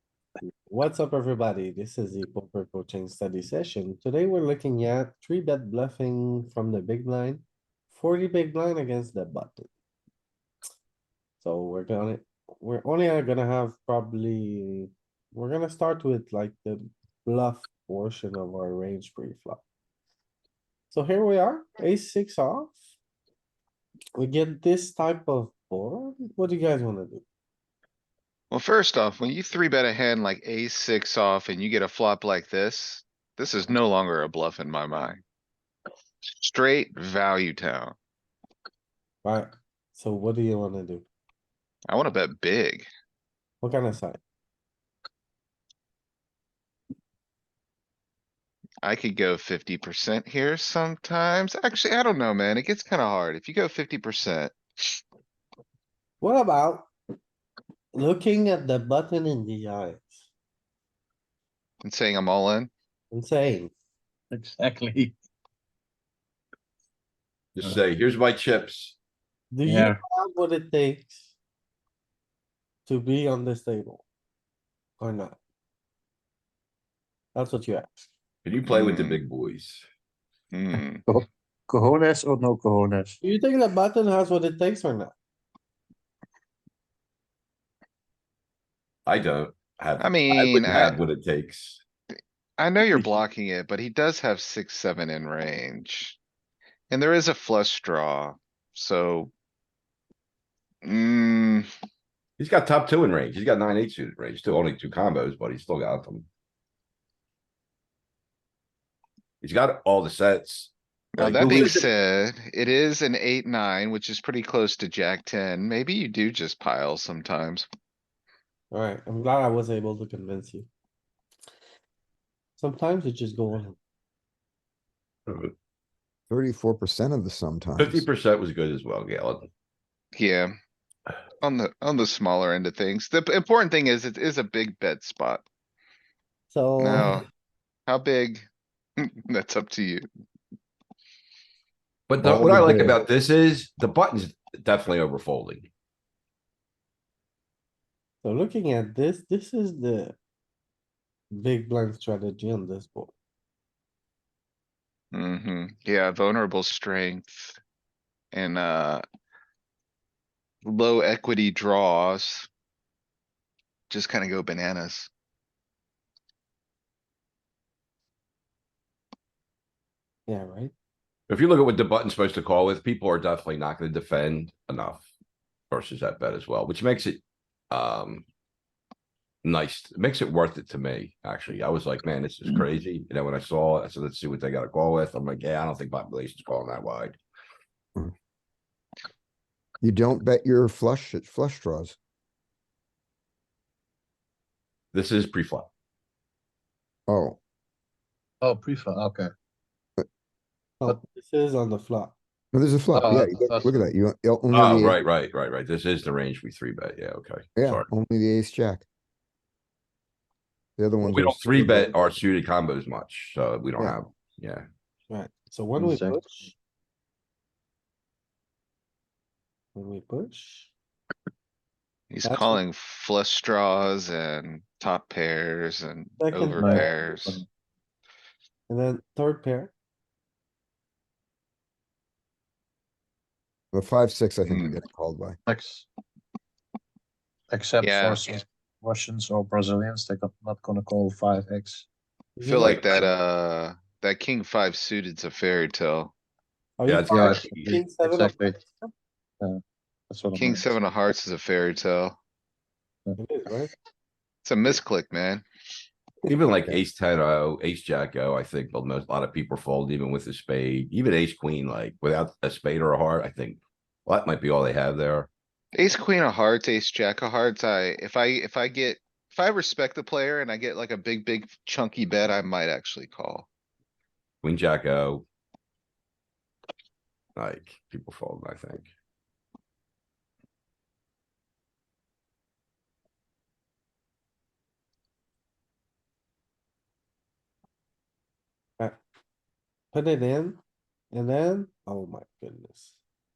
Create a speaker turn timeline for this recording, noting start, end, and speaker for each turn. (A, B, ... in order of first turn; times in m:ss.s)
0:00.5-0:09.7 A
0:11.4-0:19.6 A
0:20.9-0:22.8 A
0:24.2-0:27.2 A
0:28.5-0:35.2 B
0:36.4-0:38.0 B
0:39.2-0:41.1 A
0:41.9-0:42.9 B
0:43.6-0:44.2 A
0:48.8-0:54.6 B
0:56.2-0:56.9 A
0:58.0-1:00.2 A
1:01.8-1:02.7 B
1:03.1-1:03.7 A
1:04.3-1:05.2 C
1:07.6-1:09.0 D
1:09.5-1:11.3 A
1:09.6-1:10.0 C
1:12.9-1:14.0 A
1:15.0-1:15.4 A
1:17.4-1:18.1 A
1:18.4-1:19.9 D
1:18.7-1:19.2 B
1:20.5-1:21.0 B
1:21.1-1:23.2 C
1:23.2-1:25.1 A
1:29.1-1:31.8 D
1:30.0-1:31.0 B
1:32.6-1:36.2 B
1:36.9-1:39.3 B
1:40.8-1:41.7 B
1:42.4-1:46.3 D
1:49.4-1:51.9 D
1:51.2-1:57.7 B
1:58.7-2:00.7 A
2:02.6-2:03.8 A
2:05.3-2:05.5 D
2:06.3-2:08.1 E
2:07.8-2:09.5 D
2:10.2-2:10.6 B
2:11.4-2:15.4 B
2:16.5-2:17.2 A
2:16.8-2:17.3 B
2:17.9-2:18.5 B
2:19.0-2:20.0 B
2:22.1-2:25.7 D
2:22.2-2:22.9 A
2:28.2-2:30.2 A
2:31.3-2:33.1 A
2:35.1-2:37.6 B
2:38.3-2:39.0 B
2:40.6-2:42.5 B
2:43.9-2:45.1 B
2:50.3-2:50.7 A
2:51.3-2:55.1 D
2:55.7-2:57.2 D
2:57.7-2:58.2 D
2:59.4-3:07.2 D
3:09.8-3:12.0 E
3:14.9-3:15.7 D
3:17.1-3:17.4 E
3:18.4-3:19.3 C
3:20.8-3:22.1 A
3:22.5-3:25.0 E
3:22.9-3:23.8 C
3:24.5-3:27.9 D
3:27.6-3:28.8 E
3:30.8-3:32.2 E
3:31.0-3:34.7 D
3:35.1-3:36.5 A
3:35.8-3:36.5 C
3:39.8-3:40.7 A
3:42.1-3:47.4 B
3:42.2-3:42.6 A
3:46.2-3:47.1 A
3:46.5-3:47.4 C
3:48.7-3:49.7 A
3:53.7-3:55.4 E
3:54.4-3:54.8 B
3:55.5-3:55.9 C
3:57.5-4:01.9 C
3:57.8-3:58.4 B
4:02.4-4:03.1 A
4:02.4-4:06.1 B
4:06.8-4:08.9 A
4:06.9-4:07.8 D
4:07.1-4:08.6 C
4:09.4-4:10.7 C
4:10.4-4:12.2 B
4:13.2-4:13.7 A
4:14.4-4:15.4 B
4:16.3-4:25.3 D
4:25.7-4:33.5 B
4:34.4-4:35.2 D
4:37.4-4:38.9 D
4:49.9-4:50.6 A
4:51.1-4:53.0 A